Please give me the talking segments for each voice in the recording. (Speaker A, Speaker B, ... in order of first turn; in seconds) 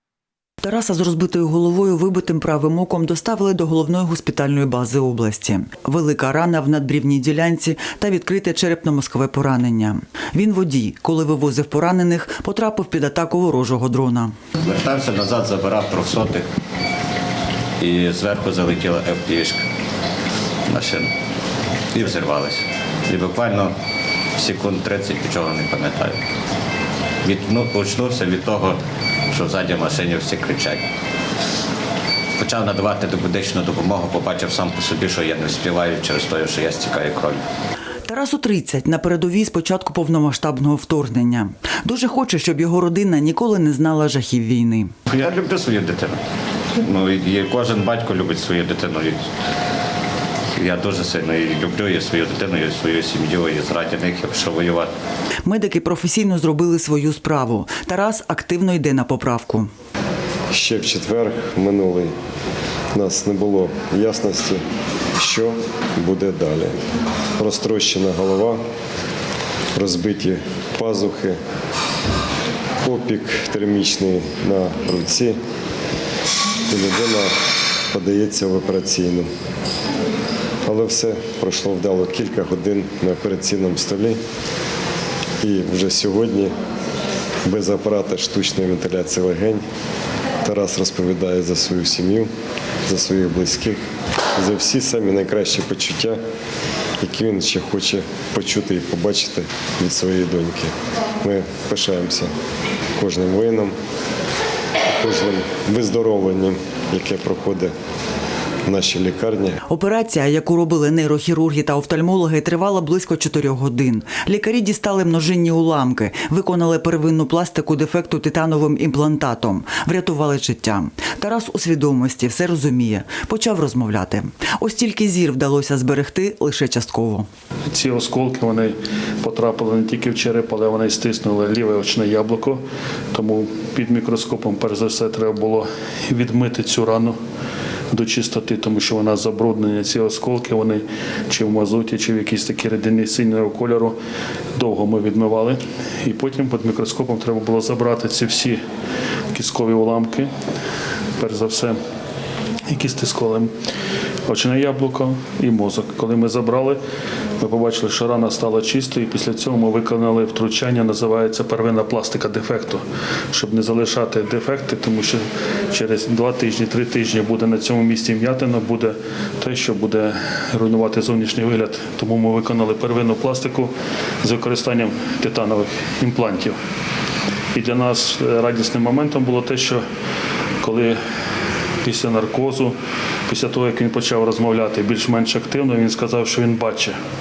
Speaker A: 0.6-14.3, 38.1-44.9, 55.4-59.7, 109.7-127.3
Speaker B: 14.6-16.4, 17.8-19.6, 20.7-21.1, 21.9-23.7, 24.4-26.2, 27.2-28.8, 29.3-30.8, 32.4-37.4, 45.1-46.2, 46.7-49.2, 50.5-54.9
Speaker C: 60.5-62.1, 62.9-64.6, 65.2-66.8, 67.3-68.6, 69.7-71.4, 72.8-75.4, 76.7-77.3, 77.9-79.3, 80.6-84.2, 85.4-86.5, 87.5-89.6, 90.4-92.3, 92.9-93.8, 94.3-96.2, 97.0-102.3, 103.0-103.8, 104.9-107.7, 108.7-109.6
Speaker D: 127.7-137.2, 137.9-144.0, 144.5-148.6, 149.3-150.3, 151.2-151.8, 152.7-153.5, 154.3-156.8, 157.4-176.6, 177.5-179.8, 180.6-181.0, 181.8-182.8, 183.3-187.0